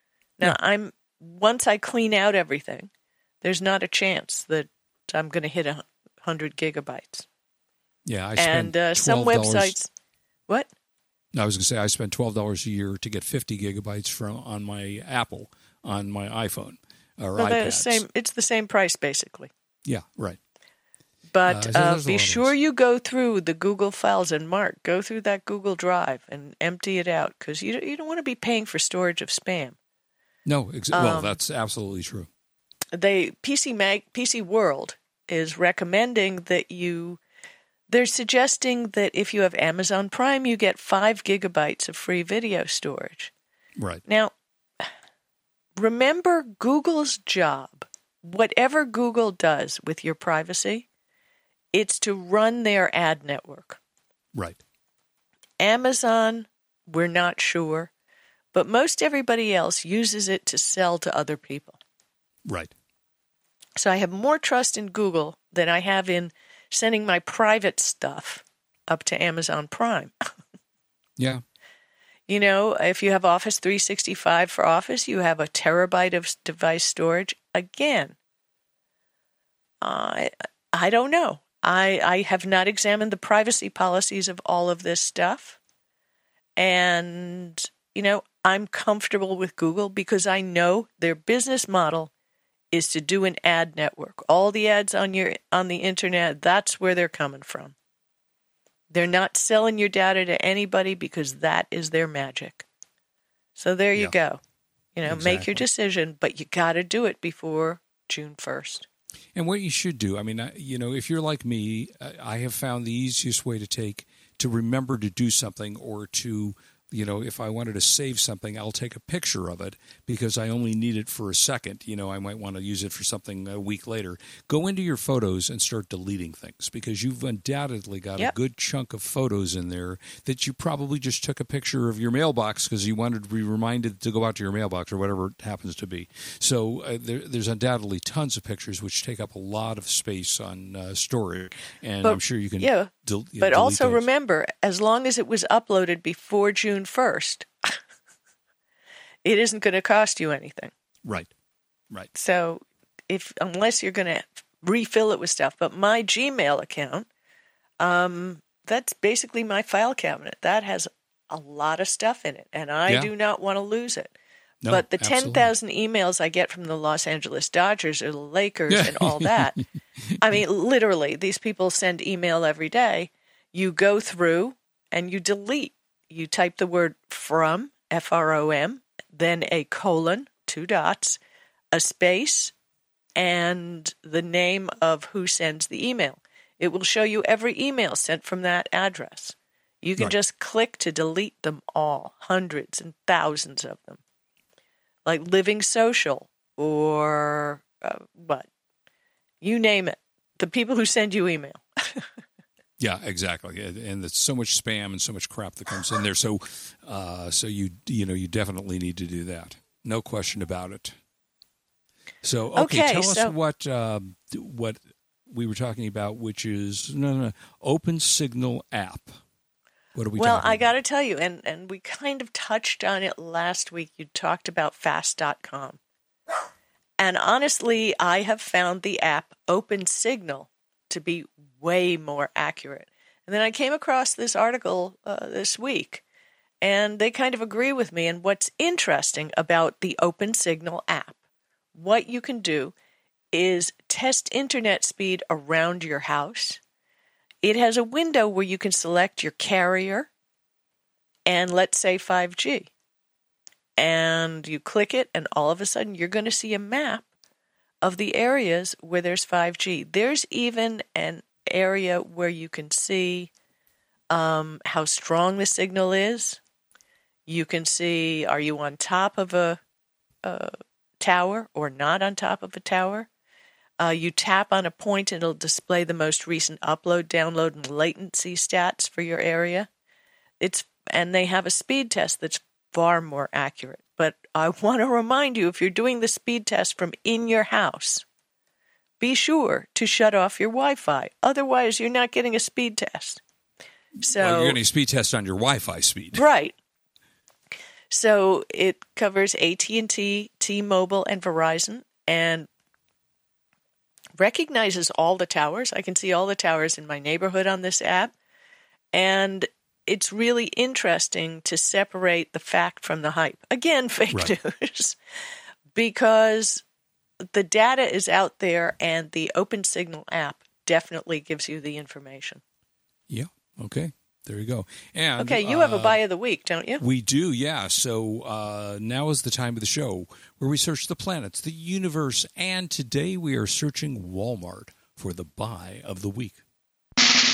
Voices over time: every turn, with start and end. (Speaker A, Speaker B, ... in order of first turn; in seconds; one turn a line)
Speaker A: 0.4-2.9
Speaker A: 3.4-7.3
Speaker B: 8.1-9.8
Speaker A: 8.4-9.9
Speaker B: 11.3-18.0
Speaker A: 17.4-19.5
Speaker B: 19.9-20.4
Speaker A: 21.3-29.8
Speaker B: 21.5-22.5
Speaker B: 30.5-32.3
Speaker A: 30.9-31.4
Speaker A: 32.9-37.2
Speaker A: 37.9-43.3
Speaker B: 43.8-44.0
Speaker A: 44.1-44.9
Speaker A: 45.8-50.9
Speaker A: 51.7-53.8
Speaker B: 54.3-54.6
Speaker A: 55.6-57.9
Speaker A: 58.5-61.8
Speaker B: 62.5-62.7
Speaker A: 63.8-70.1
Speaker B: 71.2-71.4
Speaker A: 72.3-78.2
Speaker A: 79.8-85.6
Speaker A: 86.6-92.1
Speaker A: 92.7-97.8
Speaker A: 98.9-102.7
Speaker A: 103.6-104.4
Speaker A: 105.0-108.9
Speaker B: 105.0-105.6
Speaker B: 109.3-144.1
Speaker A: 142.0-147.8
Speaker A: 149.2-150.7
Speaker B: 151.1-151.3
Speaker A: 152.2-157.1
Speaker A: 157.8-164.1
Speaker B: 164.6-165.5
Speaker A: 164.7-169.6
Speaker B: 168.7-170.4
Speaker A: 170.2-181.2
Speaker A: 181.7-182.5
Speaker A: 183.2-194.0
Speaker A: 195.1-198.5
Speaker A: 199.4-202.1
Speaker B: 202.8-210.9
Speaker B: 212.2-219.2
Speaker A: 212.6-213.3
Speaker B: 219.9-220.7
Speaker A: 220.2-225.8
Speaker A: 227.0-236.0
Speaker A: 236.6-241.2
Speaker A: 241.8-242.7
Speaker A: 243.3-246.6
Speaker A: 247.4-250.1
Speaker A: 251.3-252.7
Speaker A: 253.8-257.1
Speaker A: 257.8-263.3
Speaker A: 264.1-266.4
Speaker A: 267.3-269.6
Speaker A: 270.2-273.1
Speaker A: 273.8-279.7
Speaker A: 280.4-288.1
Speaker A: 289.0-293.2
Speaker A: 294.0-294.6
Speaker B: 294.1-296.2
Speaker A: 296.1-296.6
Speaker A: 297.9-302.5
Speaker A: 304.2-308.1
Speaker A: 308.9-315.0
Speaker A: 315.8-316.6
Speaker A: 317.3-322.4
Speaker B: 323.1-326.0
Speaker A: 325.2-326.8
Speaker B: 326.8-336.4